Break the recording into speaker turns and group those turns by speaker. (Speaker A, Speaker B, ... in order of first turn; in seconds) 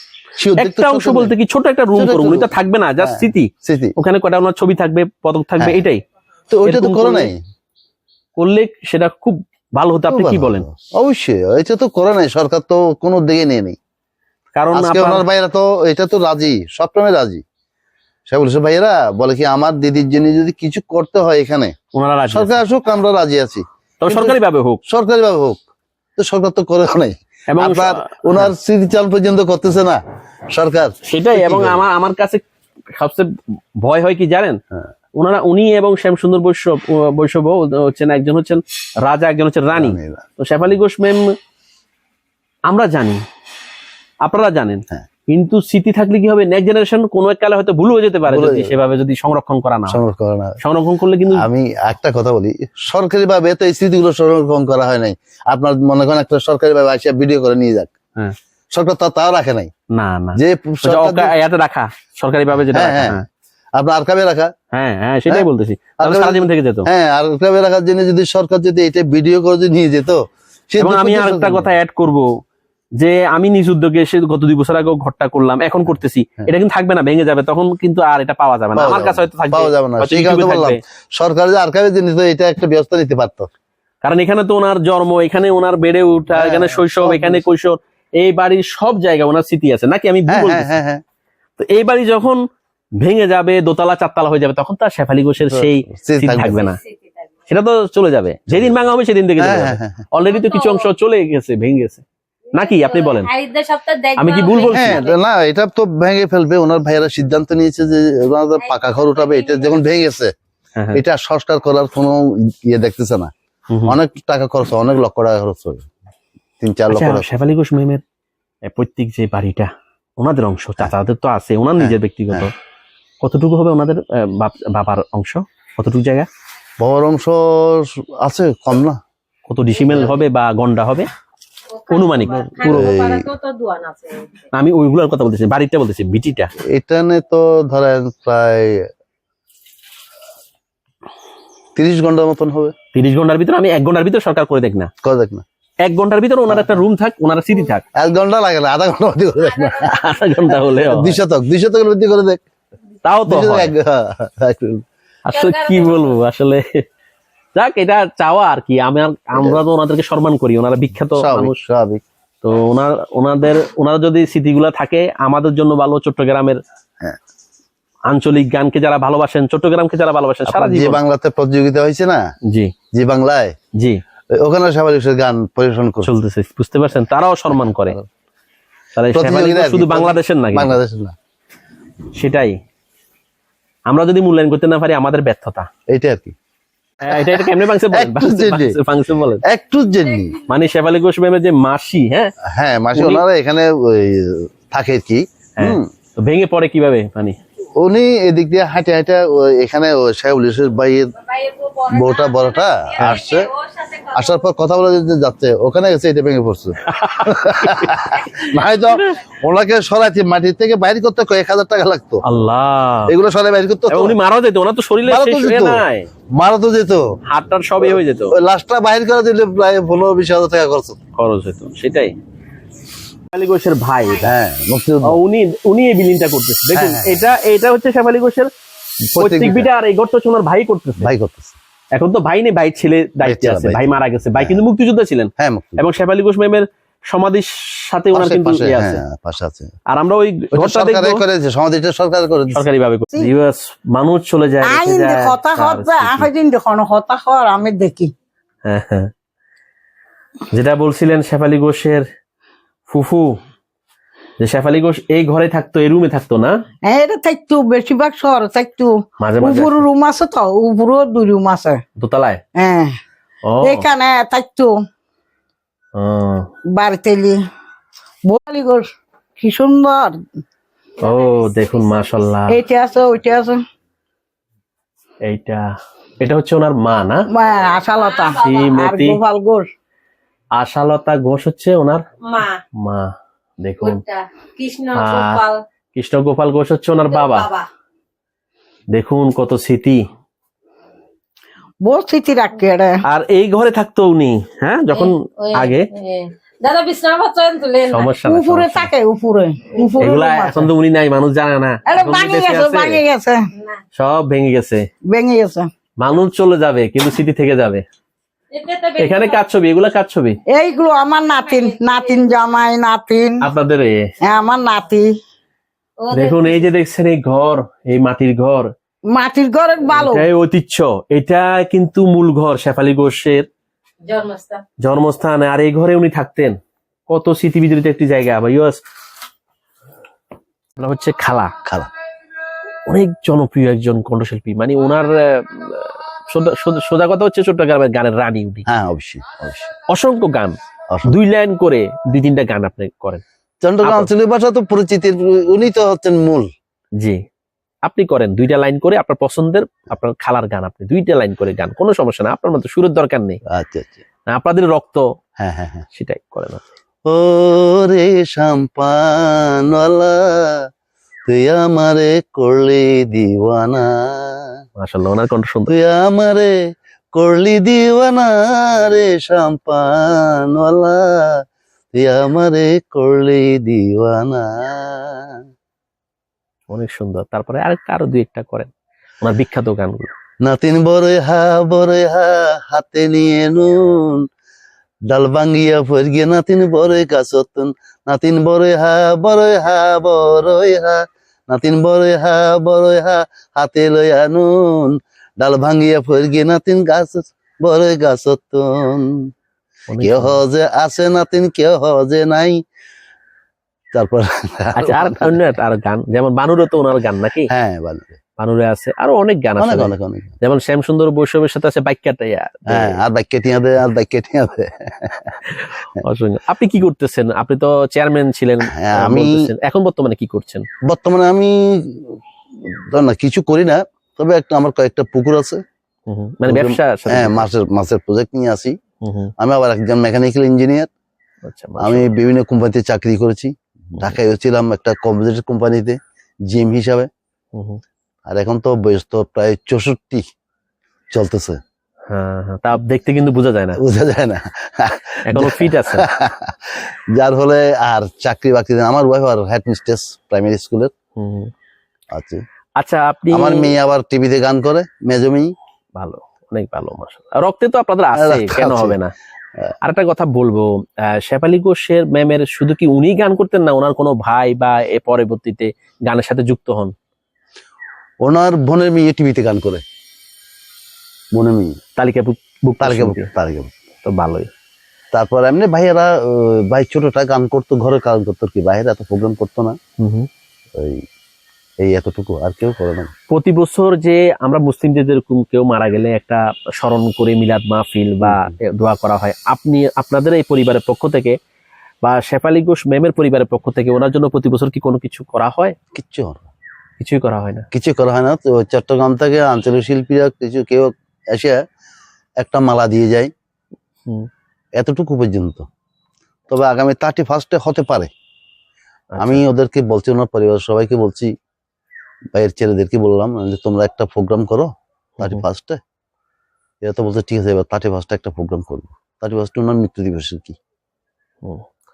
Speaker A: 0.4-1.3, 1.9-3.9, 5.6-5.8, 6.5-7.4, 10.1-13.8, 14.7-17.4, 18.3-21.7, 22.3-25.6, 26.2-30.0, 30.5-31.8, 39.7-40.2, 48.3-48.7, 49.9-50.6, 51.3-57.9, 58.7-59.7, 60.4-61.3, 62.7-63.2, 63.8-64.5, 66.0-71.7, 78.7-83.5, 86.3-87.4, 90.3-91.0, 95.4-96.7, 98.5-98.7, 99.4-100.0, 104.7-110.3, 110.9-113.3, 113.9-115.8, 116.6-117.3, 121.8-122.5, 126.8-129.0, 129.9-130.2, 132.7-133.3, 136.7-138.8, 141.8-142.7, 145.0-145.4, 146.5-146.8, 147.9-152.4, 153.2-154.8, 159.3-159.6, 161.1-162.0, 170.5-172.2, 172.9-173.5, 174.3-176.1, 177.5-178.1, 179.1-181.1, 185.9-186.3, 187.0-188.8, 189.5-190.4, 192.5-195.9, 197.8-201.1, 201.9-203.5, 204.1-212.2, 213.1-214.2, 215.0-217.0, 217.8-221.0, 224.2-225.2, 226.7-227.3, 229.1-229.7, 231.0-231.6, 233.2-233.8, 234.3-234.6, 235.4-235.8, 238.1-239.7, 240.5-242.6, 331.6-331.9, 338.7-339.7, 340.9-341.2, 343.6-346.5, 353.5-354.0, 355.4-355.9, 357.1-360.6, 361.3-364.5, 365.7-366.5, 367.1-371.4, 371.9-375.4, 380.4-384.2, 385.1-399.3, 400.0-402.6, 403.9-405.4, 407.5-408.2, 409.6-410.3, 412.7-415.3, 418.7-419.5, 420.9-422.1, 422.8-425.6, 426.4-428.7, 429.4-430.9, 431.8-436.0, 436.5-437.1, 438.3-440.2, 441.1-441.6, 443.8-446.6, 447.1-450.9, 452.1-452.4, 453.3-455.5, 458.1-459.0, 468.2-469.8, 471.3-471.7, 472.8-473.7, 475.1-479.8, 480.8-481.0, 481.8-483.1, 488.2-488.5, 495.9-496.5, 497.7-501.6, 502.4-503.3, 504.8-505.6, 506.5-508.1, 509.2-511.3, 512.4-515.8, 516.8-520.5
Speaker B: 0.6-6.0, 6.6-7.3, 8.3-10.6, 14.5-15.2, 21.9-22.6, 24.0-24.8, 27.5-28.5, 31.1-32.4, 33.0-33.2, 33.8-34.6, 35.1-41.2, 42.7-43.2, 44.2-50.0, 50.6-51.5, 59.9-63.2, 64.7-66.9, 70.8-72.3, 73.0-80.8, 84.0-90.8, 91.6-92.4, 93.0-96.8, 97.5-102.0, 102.5-103.3, 104.2-105.0, 113.7-114.0, 116.9-118.0, 118.7-122.5, 123.2-126.3, 129.5-131.1, 131.9-132.9, 134.5-136.5, 142.9-144.9, 145.8-147.8, 149.9-151.2, 153.0-153.7, 155.2-156.8, 157.5-161.6, 162.4-166.6, 168.1-171.0, 176.0-178.0, 178.9-180.8, 182.1-182.6, 183.9-185.7, 187.0-189.4, 190.5-192.3, 192.9-193.2, 195.6-197.4, 203.0-203.2, 206.9-208.3, 212.2-213.1, 213.9-216.1, 217.3-218.3, 221.2-222.2, 223.3-224.3, 225.0-228.5, 229.2-231.1, 231.9-239.0, 239.9-241.2, 242.5-246.3, 248.7-249.1, 250.5-252.0, 252.9-253.4, 254.4-256.6, 259.2-259.8, 262.0-262.4, 263.4-263.9, 266.0-266.5, 271.0-272.6, 275.2-275.6, 276.2-277.2, 278.4-279.2, 280.6-282.0, 282.8-284.0, 284.9-285.4, 285.9-287.5, 288.9-290.0, 293.1-295.9, 297.9-298.9, 300.0-303.0, 303.9-304.8, 306.0-307.8, 309.0-310.4, 313.4-314.0, 316.1-318.7, 319.8-323.4, 324.8-326.6, 327.1-328.8, 330.8-331.5, 332.9-338.7, 339.9-343.2, 343.8-344.1, 347.9-353.4, 354.2-355.0, 355.9-356.6, 364.8-365.7, 376.7-380.1, 399.9-400.4, 404.8-407.5, 408.4-413.0, 415.5-420.6, 426.1-427.5, 429.0-429.3, 431.4-432.1, 437.5-437.8, 442.1-443.8, 445.2-446.0, 451.1-451.5, 452.8-453.7, 456.0-459.1, 459.8-466.9, 472.0-473.3, 474.0-474.5, 480.0-480.3, 483.3-491.4, 492.0-495.8, 497.0-497.6, 509.1-509.4, 515.2-515.4
Speaker C: 96.8-97.1, 100.2-100.8, 102.5-105.2, 108.6-109.8, 131.7-134.4, 149.4-149.9, 155.3-156.1, 201.2-204.4, 271.0-272.3, 277.7-278.8, 282.2-282.6, 283.8-285.6, 287.1-287.7, 294.9-298.1, 308.5-309.4, 311.2-312.4, 316.0-316.7, 324.0-324.6
Speaker D: 244.6-248.1, 256.9-261.8, 262.6-262.9, 263.6-264.7, 266.7-267.4, 268.2-268.9, 269.4-270.1, 272.5-273.6, 277.3-279.7, 291.8-293.0, 298.2-300.7, 301.9-303.4, 305.1-305.7, 310.5-313.4, 314.2-315.1, 319.1-320.2